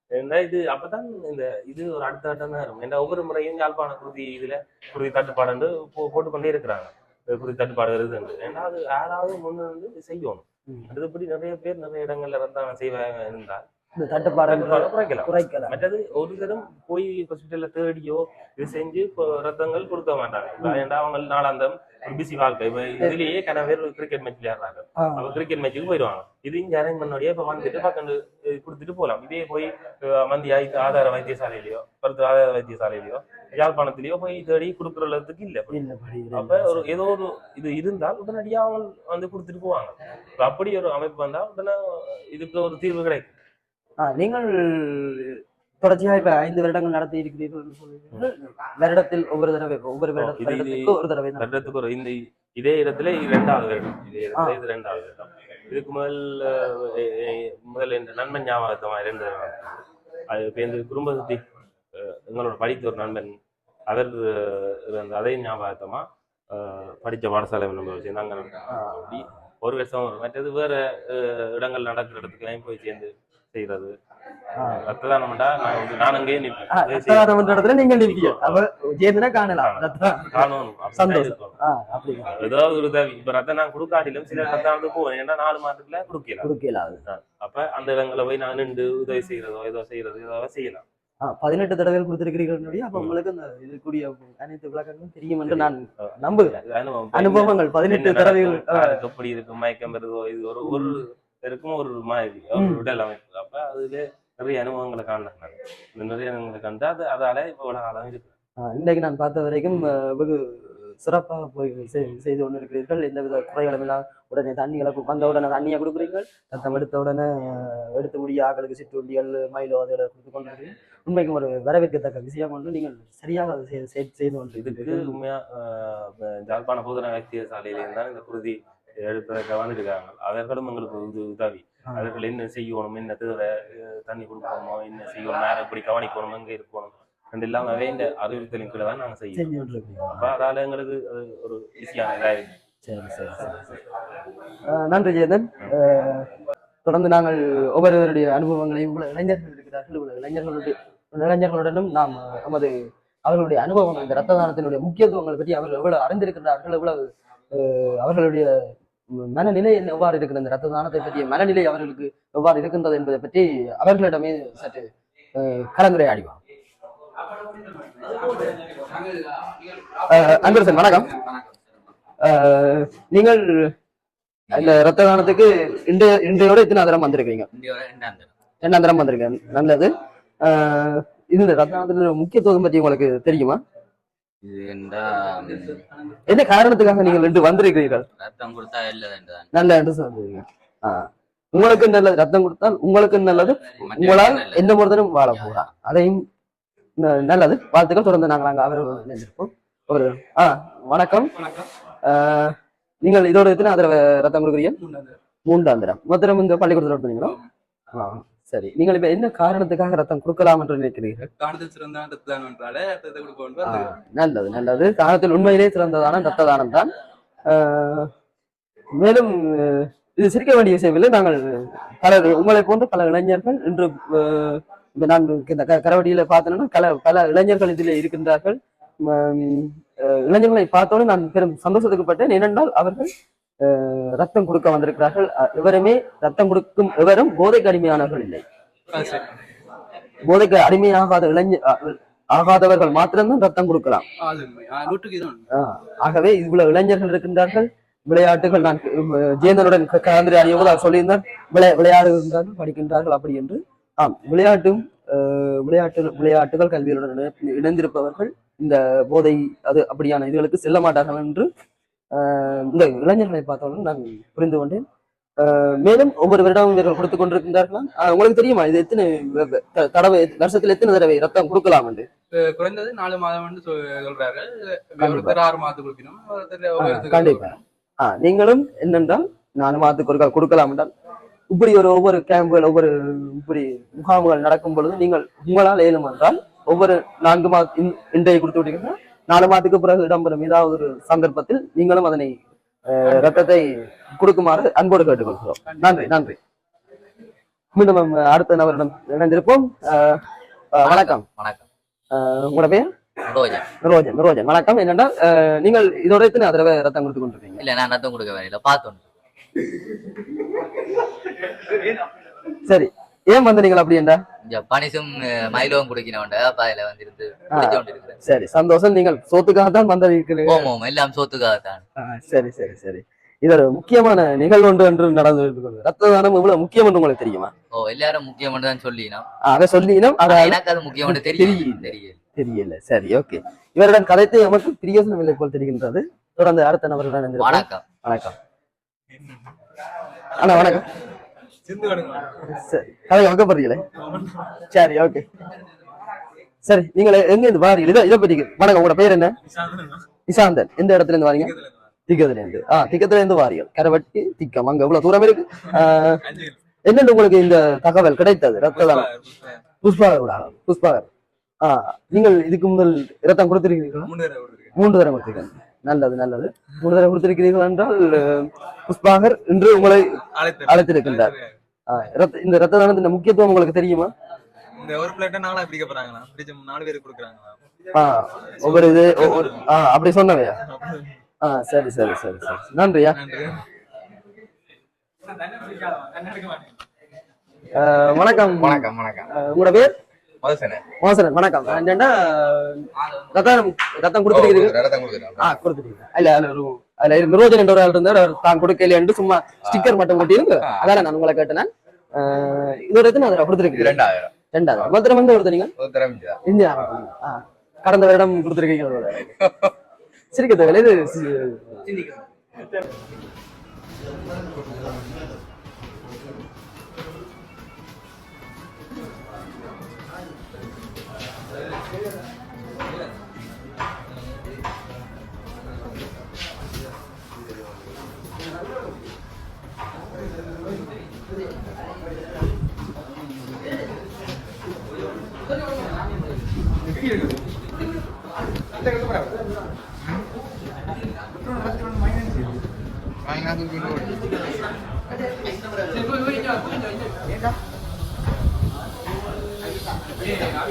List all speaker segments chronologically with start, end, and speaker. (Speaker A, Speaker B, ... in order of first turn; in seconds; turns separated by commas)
Speaker A: 0.1-13.6, Speaker B: 13.9-15.8, Speaker A: 14.5-35.8, Speaker B: 25.0-25.3, Speaker B: 35.7-36.9, Speaker A: 36.3-43.3, Speaker B: 44.0-51.6, Speaker A: 50.2-61.4, Speaker A: 61.9-63.3, Speaker A: 63.9-73.9, Speaker B: 68.7-69.2, Speaker B: 74.6-74.8, Speaker A: 74.6-78.6, Speaker B: 76.7-82.4, Speaker A: 79.6-81.5, Speaker A: 82.3-86.5, Speaker B: 86.4-87.0, Speaker A: 87.1-90.8, Speaker B: 91.2-96.6, Speaker A: 95.5-108.3, Speaker B: 97.1-98.9, Speaker B: 100.6-100.9, Speaker B: 102.5-102.8, Speaker B: 108.6-125.1, Speaker A: 124.6-139.4, Speaker B: 139.3-140.2, Speaker A: 140.1-142.5, Speaker B: 142.8-143.8, Speaker B: 144.7-146.3, Speaker B: 146.8-166.4, Speaker C: 167.5-171.4, Speaker B: 170.1-171.1, Speaker B: 172.2-173.7, Speaker D: 174.5-174.8, Speaker B: 174.5-177.5, Speaker D: 177.5-178.3, Speaker B: 178.6-183.6, Speaker D: 184.4-185.8, Speaker C: 185.5-185.8, Speaker B: 186.3-188.1, Speaker D: 188.2-189.4, Speaker B: 189.5-196.2, Speaker D: 193.8-194.6, Speaker B: 197.0-201.3, Speaker C: 201.3-201.7, Speaker B: 202.0-204.8, Speaker C: 204.8-205.2, Speaker B: 205.4-207.3, Speaker C: 207.2-207.5, Speaker B: 207.9-211.3, Speaker C: 211.4-213.9, Speaker B: 213.6-216.9, Speaker B: 217.5-218.1, Speaker B: 219.0-233.1, Speaker B: 233.6-238.4, Speaker C: 238.9-239.4, Speaker B: 240.2-244.0, Speaker C: 244.2-245.4, Speaker B: 245.5-261.5, Speaker B: 262.1-264.8, Speaker B: 265.4-272.1, Speaker C: 272.3-277.6, Speaker B: 275.0-275.4, Speaker B: 276.8-280.9, Speaker B: 281.5-296.4, Speaker C: 295.6-296.1, Speaker B: 297.7-300.2, Speaker B: 300.7-301.2, Speaker D: 300.8-301.6, Speaker B: 302.1-302.9, Speaker D: 303.2-303.6, Speaker B: 303.8-307.6, Speaker D: 307.6-309.0, Speaker B: 312.6-314.2, Speaker D: 314.4-318.1, Speaker B: 317.5-320.7, Speaker D: 320.5-321.8, Speaker B: 322.0-327.5, Speaker D: 327.7-329.2, Speaker B: 329.4-338.3, Speaker D: 330.3-332.2, Speaker D: 337.4-337.8, Speaker C: 339.1-339.4, Speaker B: 340.4-340.9, Speaker C: 341.6-342.4, Speaker B: 342.4-343.8, Speaker C: 343.9-344.6, Speaker B: 344.7-345.2, Speaker B: 346.6-349.4, Speaker C: 349.4-350.1, Speaker B: 350.3-351.5, Speaker C: 351.3-351.9, Speaker B: 352.1-356.2, Speaker C: 355.6-356.6, Speaker B: 356.9-359.1, Speaker C: 358.6-359.6, Speaker B: 359.8-361.1, Speaker B: 361.6-364.1, Speaker C: 364.0-364.7, Speaker B: 364.7-371.3, Speaker C: 370.2-371.6, Speaker B: 371.9-374.1, Speaker C: 374.8-377.6, Speaker E: 375.1-376.1, Speaker B: 377.9-380.6, Speaker C: 378.5-379.6, Speaker C: 380.7-381.0, Speaker B: 381.4-383.2, Speaker C: 383.1-383.6, Speaker C: 385.2-386.8, Speaker B: 387.7-389.9, Speaker E: 388.6-389.3, Speaker E: 390.4-390.8, Speaker B: 391.0-394.8, Speaker E: 394.3-395.5, Speaker B: 395.4-404.0, Speaker E: 399.6-399.9, Speaker E: 400.6-400.9, Speaker E: 403.7-404.3, Speaker B: 404.5-405.7, Speaker E: 405.8-406.4, Speaker B: 406.4-409.4, Speaker B: 410.3-411.8, Speaker C: 411.9-412.2